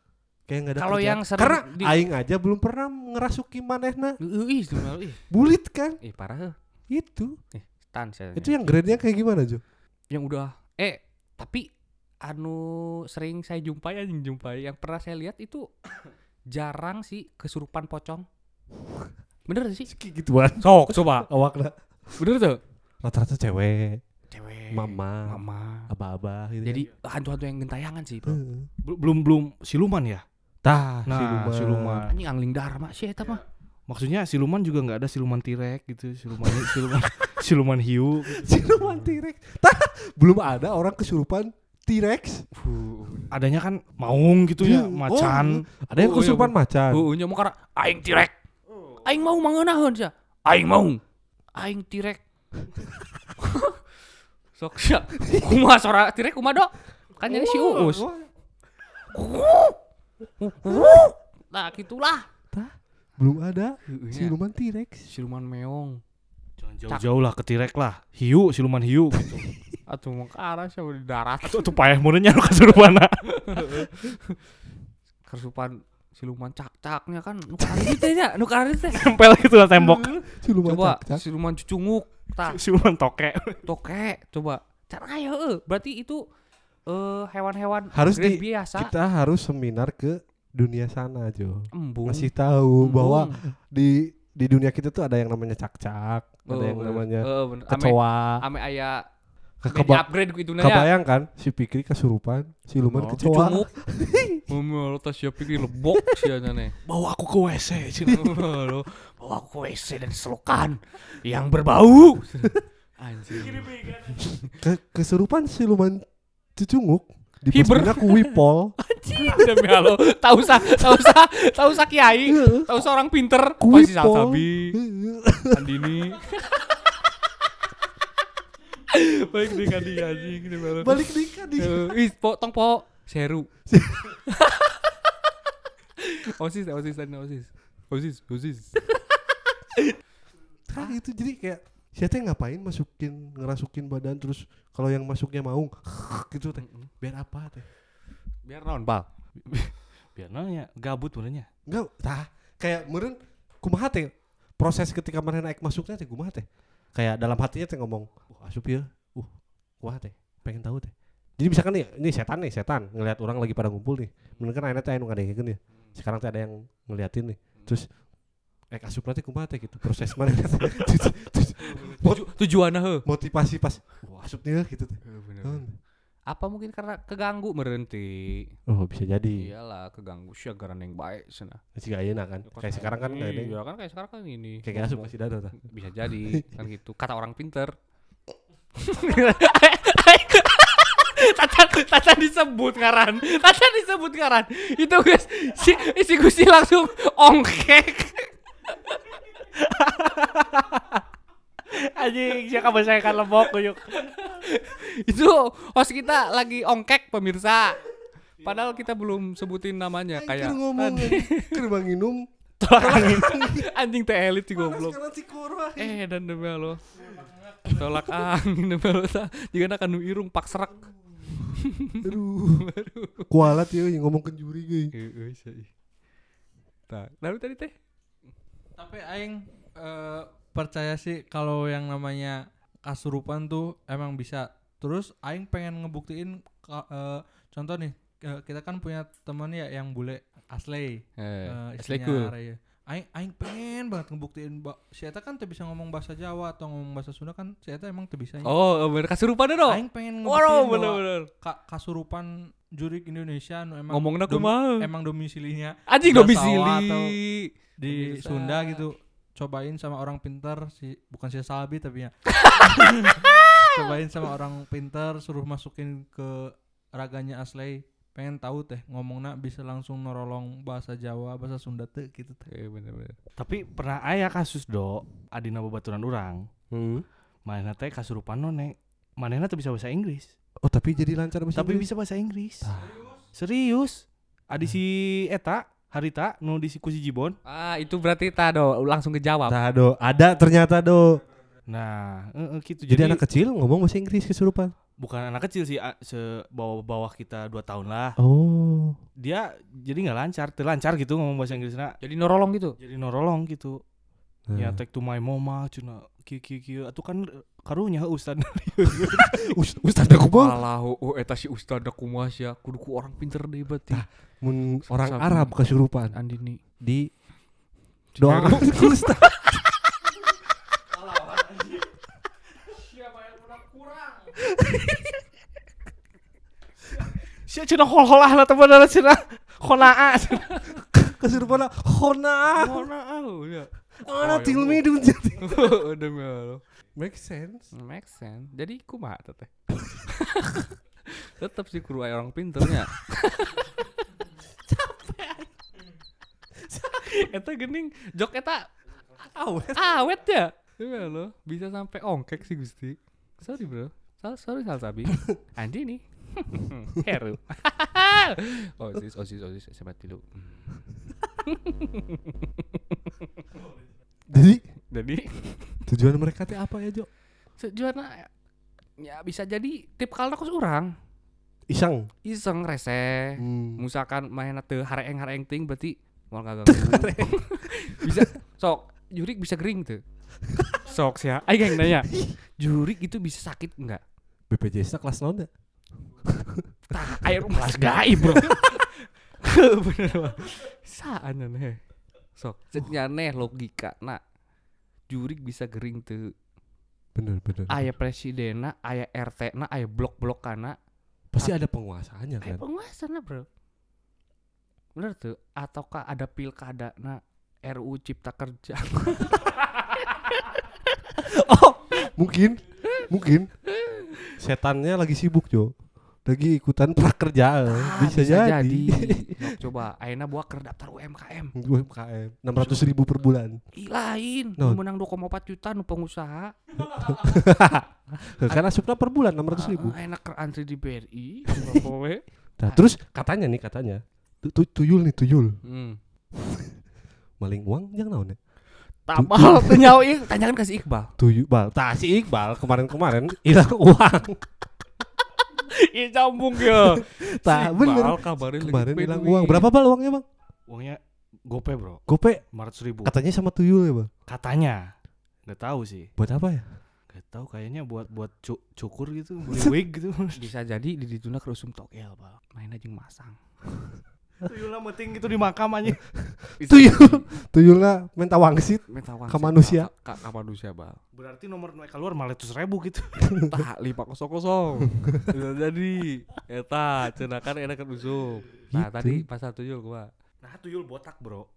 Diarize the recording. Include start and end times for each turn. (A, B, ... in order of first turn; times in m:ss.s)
0:00.5-0:04.2 A
0:00.8-0:02.0 B
0:04.2-0:05.2 B
0:05.3-0:06.0 A
0:06.0-0:06.6 B
0:06.9-0:07.4 A
0:07.5-0:08.6 B
0:08.4-0:09.6 A
0:10.1-0:11.7 B
0:12.2-0:15.7 B
0:16.5-0:18.3 B
0:19.5-0:19.9 B
0:19.9-0:22.3 A
0:20.6-0:21.3 B
0:22.2-0:22.6 B
0:23.0-0:24.0 A
0:24.3-0:25.9 B
0:24.7-0:26.9 A
0:26.6-0:28.4 B
0:28.3-0:28.7 A
0:28.8-0:30.2 C
0:30.6-0:32.1 A
0:31.1-0:32.1 C
0:32.1-0:33.4 B
0:33.9-0:38.5 C
0:38.3-0:42.5 A
0:38.8-0:39.1 B
0:42.6-0:43.4 B
0:43.3-0:45.7 C
0:44.6-0:47.1 A
0:45.9-0:48.3 B
0:49.0-0:51.0 B
0:51.6-0:52.2 B
0:53.4-0:53.8 B
0:54.6-0:58.1 B
0:55.3-0:55.6 A
0:57.2-0:58.3 A
0:59.1-0:59.8 B
1:00.4-1:02.3 B
1:02.5-1:05.1 A
1:03.9-1:04.4 B
1:05.1-1:06.0 B
1:06.6-1:09.4 C
1:09.9-1:11.7 B
1:11.4-1:13.7 C
1:13.5-1:14.4 B
1:15.3-1:19.1 B
1:18.9-1:20.1 C
1:19.7-1:21.2 A
1:20.6-1:22.6 B
1:22.4-1:23.6 C
1:23.6-1:26.2 B
1:26.9-1:28.9 B
1:27.9-1:38.4 A
1:31.7-1:33.4 B
1:36.5-1:39.0 B
1:39.6-1:44.5 A
1:39.7-1:40.9 B
1:42.9-1:43.7 B
1:44.5-1:46.8 B
1:45.5-1:46.2 A
1:46.8-1:48.5 C
1:48.1-1:53.7 B
1:53.3-1:54.2 C
1:54.2-1:54.5 B
1:54.5-1:59.6 A
1:57.5-2:04.8 B
2:02.3-2:02.8 A
2:03.6-2:05.6 A
2:05.5-2:06.8 B
2:08.9-2:13.5 B
2:10.8-2:11.9 A
2:13.7-2:14.2 A
2:14.5-2:14.8 B
2:16.0-2:18.8 B
2:20.7-2:27.7 A
2:26.6-2:26.9 B
2:28.4-2:29.1 B
2:29.5-2:31.5 C
2:31.7-2:48.0 A
2:48.7-2:52.3 A
2:51.6-2:53.0 B
2:53.0-2:55.8 A
2:55.0-2:55.6 B
2:56.3-2:58.5 B
2:58.7-2:59.5 A
2:59.4-3:01.6 B
3:01.8-3:03.6 A
3:02.4-3:07.7 B
3:04.6-3:05.6 A
3:08.8-3:19.2 B
3:19.6-3:21.0 C
3:21.7-3:23.8 C
3:22.6-3:27.8 B
3:28.4-3:31.6 B
3:30.1-3:33.7 A
3:32.6-3:35.0 B
3:34.5-3:36.0 A
3:35.8-3:40.9 B
3:41.6-3:42.0 B
3:42.0-3:42.7 A
3:42.6-3:43.5 B
3:43.3-3:44.9 A
3:44.9-3:45.7 B
3:46.9-3:47.7 B
3:48.8-4:08.6 D
4:01.2-4:02.3 B
4:08.4-4:11.3 B
4:09.6-4:17.2 D
4:13.9-4:14.9 B
4:15.9-4:18.8 B
4:17.8-4:32.5 D
4:22.4-4:23.6 B
4:32.5-4:33.2 B
4:33.4-4:36.4 C
4:36.7-4:37.0 A
4:37.5-4:40.3 C
4:40.6-4:41.9 A
4:41.6-4:42.7 C
4:42.6-4:43.1 A
4:43.3-4:47.4 C
4:47.4-4:49.6 B
4:49.5-4:51.2 A
4:51.7-4:53.2 C
4:52.8-4:54.7 A
4:55.0-4:58.2 C
4:58.2-4:59.0 A
4:59.2-5:02.0 C
5:02.0-5:02.8 B
5:02.8-5:03.8 C
5:04.5-5:04.8 A
5:04.6-5:09.5 C
5:09.0-5:10.6 A
5:10.1-5:14.0 B
5:13.9-5:16.2 A
5:14.9-5:16.6 B
5:16.8-5:17.2 A
5:18.1-5:19.4 B
5:18.2-5:19.3 A
5:27.4-5:30.5 C
5:30.5-5:30.8 B
5:30.9-5:32.9 A
5:32.5-5:34.8 B
5:34.0-5:35.7 A
5:35.4-5:36.6 B
5:37.0-5:37.7 A
5:37.7-5:44.1 B
5:44.7-5:45.5 B
5:46.7-5:48.7 B
5:49.2-5:50.0 A
5:49.7-6:00.7 B
6:01.4-6:03.0 B
6:04.3-6:04.6 A
6:04.4-6:05.8 B
6:05.9-6:07.1 A
6:07.6-6:08.3 B
6:09.0-6:10.9 B
6:11.7-6:12.1 A
6:12.2-6:20.0 B
6:13.4-6:13.8 A
6:16.7-6:18.2 A
6:20.8-6:24.0 B
6:21.8-6:22.4 A
6:24.5-6:25.5 A
6:26.2-6:26.7 A
6:26.9-6:31.8 B
6:28.2-6:28.6 A
6:32.4-6:34.2 B
6:35.1-6:36.3 B
6:37.2-6:37.8 A
6:37.7-6:40.8 B
6:41.3-6:42.6 A
6:42.4-6:43.5 B
6:45.0-6:50.5 B
6:51.2-6:53.5 A
6:54.4-6:59.5 A
6:57.7-7:01.5 B
7:01.6-7:03.6 A
7:02.6-7:02.9 B
7:03.7-7:06.6 B
7:06.8-7:10.0 A
7:09.5-7:12.8 B
7:12.6-7:15.6 A
7:15.6-7:16.0 B
7:16.4-7:16.8 A
7:17.4-7:18.4 A
7:19.0-7:21.1 B
7:19.2-7:20.0 A
7:21.2-7:24.4 A
7:25.6-7:29.7 B
7:26.6-7:30.2 A
7:30.7-7:32.0 C
7:32.1-7:32.4 A
7:32.5-7:33.1 C
7:33.0-7:34.1 A
7:34.3-7:34.8 C
7:35.5-7:36.1 C
7:36.2-7:36.7 A
7:37.1-7:40.4 C
7:40.4-7:43.4 B
7:44.4-7:46.0 C
7:46.0-7:49.9 A
7:46.6-7:47.3 B
7:48.9-7:51.0 B
7:51.1-7:53.3 C
7:53.3-7:53.5 A
7:53.4-8:00.1 B
7:58.7-7:59.2 A
8:00.4-8:01.5 C